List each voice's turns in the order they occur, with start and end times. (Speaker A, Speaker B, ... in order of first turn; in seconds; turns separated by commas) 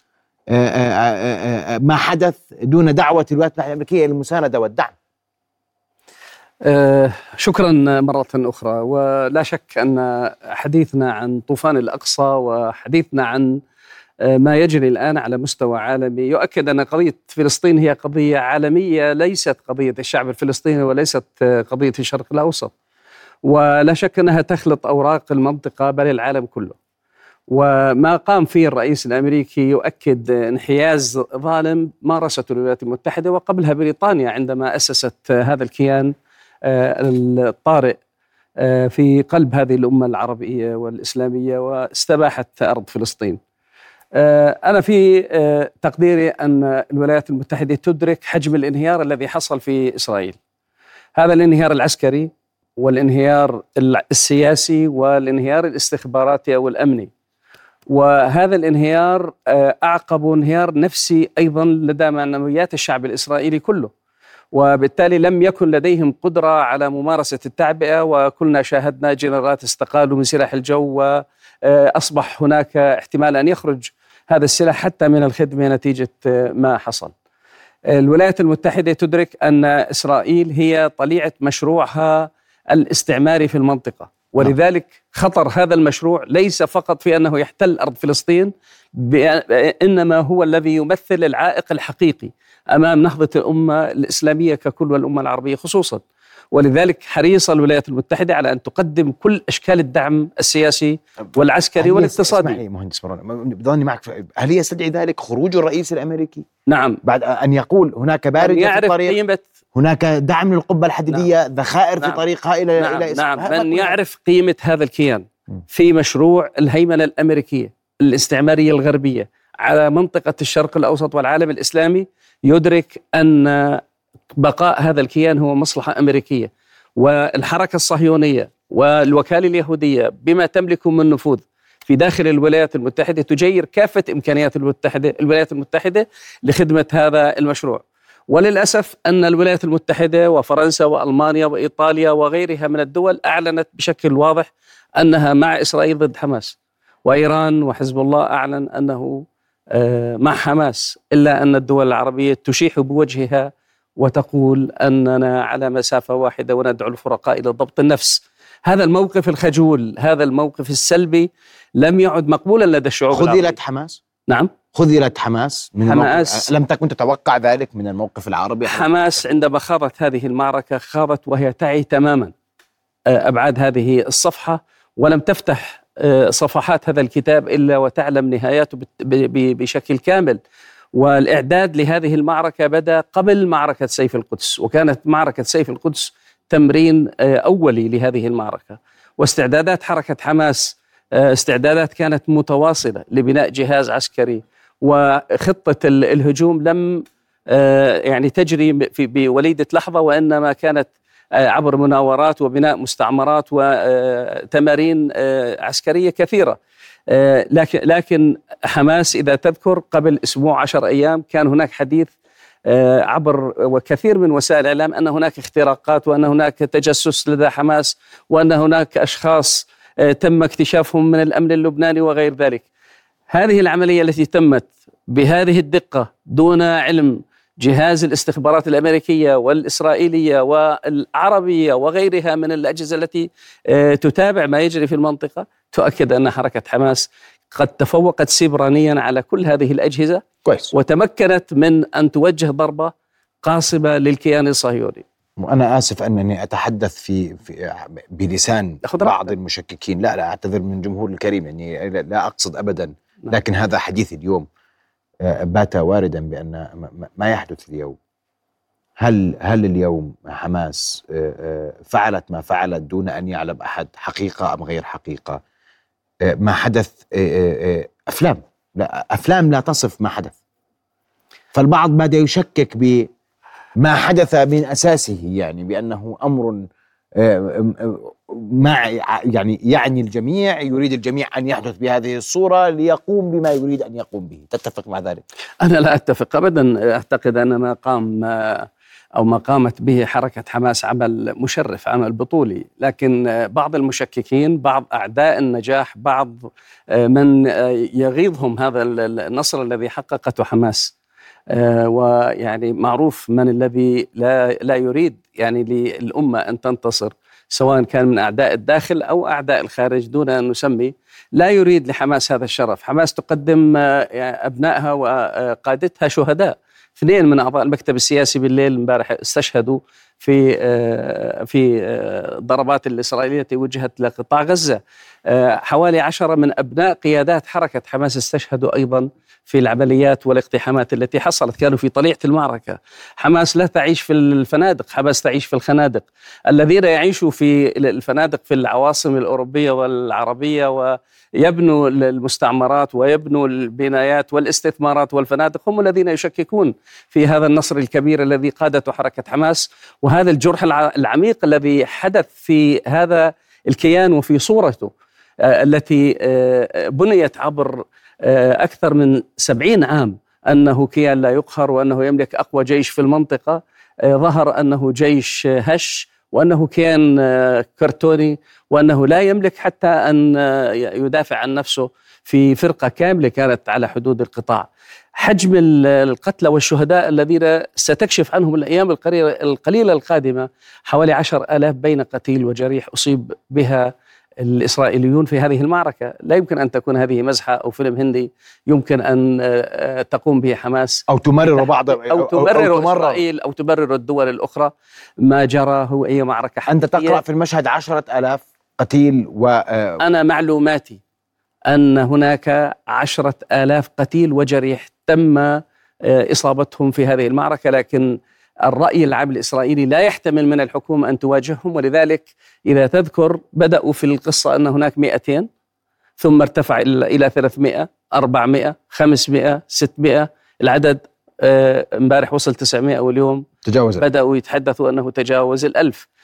Speaker A: 0.5-4.9, Speaker B: 6.6-13.6, Speaker B: 14.2-22.7, Speaker B: 23.4-26.8, Speaker B: 27.5-38.0, Speaker B: 38.6-43.4, Speaker B: 44.1-50.4, Speaker B: 51.2-57.1, Speaker B: 57.9-63.9, Speaker B: 64.5-77.1, Speaker B: 77.9-102.6, Speaker A: 101.8-106.5, Speaker B: 106.7-107.0, Speaker A: 107.0-109.2, Speaker B: 108.4-109.4, Speaker A: 109.8-114.0, Speaker B: 112.8-123.8, Speaker B: 124.3-163.6, Speaker A: 163.1-164.0, Speaker A: 164.7-169.2, Speaker B: 165.9-166.4, Speaker B: 168.7-172.3, Speaker B: 173.1-180.4, Speaker B: 180.9-206.6, Speaker B: 207.1-212.1, Speaker B: 212.7-222.6, Speaker B: 223.3-245.0, Speaker A: 240.4-240.7, Speaker A: 245.4-254.4, Speaker B: 248.8-249.3, Speaker A: 255.2-258.0, Speaker A: 259.0-265.4, Speaker A: 266.3-270.4, Speaker A: 271.5-273.1, Speaker A: 273.8-276.6, Speaker A: 277.2-285.2, Speaker B: 285.6-300.9, Speaker B: 301.5-354.9, Speaker B: 355.4-374.7, Speaker B: 375.2-391.0, Speaker A: 391.1-393.2, Speaker B: 391.6-394.7, Speaker B: 395.2-397.2, Speaker A: 396.7-400.0, Speaker B: 400.0-401.0, Speaker B: 401.7-415.5, Speaker B: 416.2-423.4, Speaker A: 423.6-424.1, Speaker B: 424.0-426.1